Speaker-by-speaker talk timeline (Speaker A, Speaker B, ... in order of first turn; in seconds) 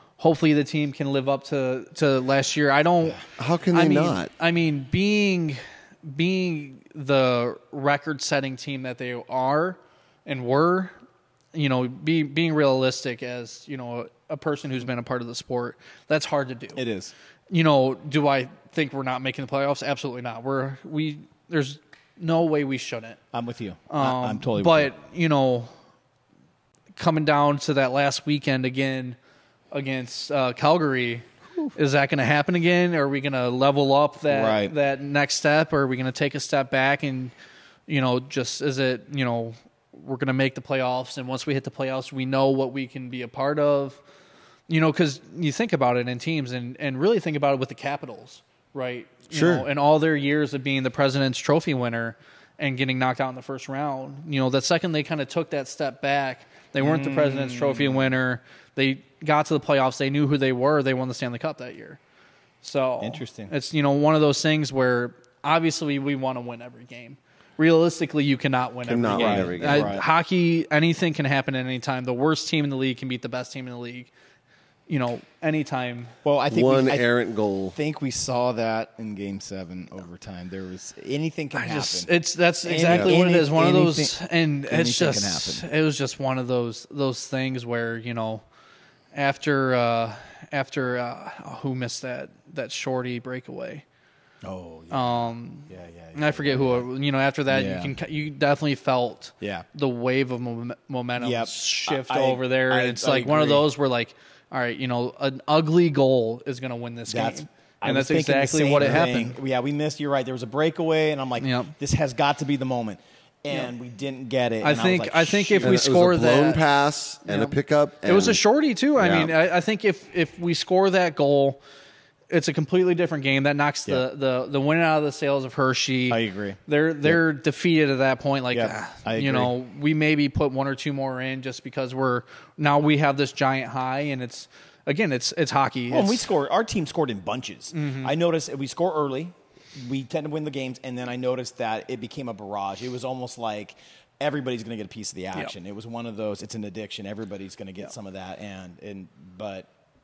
Speaker A: 0.2-3.2, 3.7-10.9, 11.5-16.8, 17.5-23.2, 23.9-25.7, 27.0-29.2, 29.7-37.3, 37.9-44.0, 44.7-62.0, 62.6-74.1, 74.9-76.1, 81.5-88.4, 89.1-93.8, 94.9-109.4, 111.4-111.7, 114.6-116.6, 117.2-121.6, 122.3-136.3, 137.7-138.1
Speaker B: 3.4-4.3, 49.3-49.7, 68.9-70.0, 76.5-77.8, 115.6-118.4, 119.0-119.3
Speaker C: 16.8-17.1, 23.3-24.9, 34.3-34.8, 56.8-58.1, 63.0-63.5, 69.1-70.1, 76.2-77.1, 77.7-85.7, 94.4-96.9, 97.5-97.9, 99.4-99.7, 101.2-103.7, 107.1-115.8, 126.1-127.2, 128.5-129.5, 135.9-149.7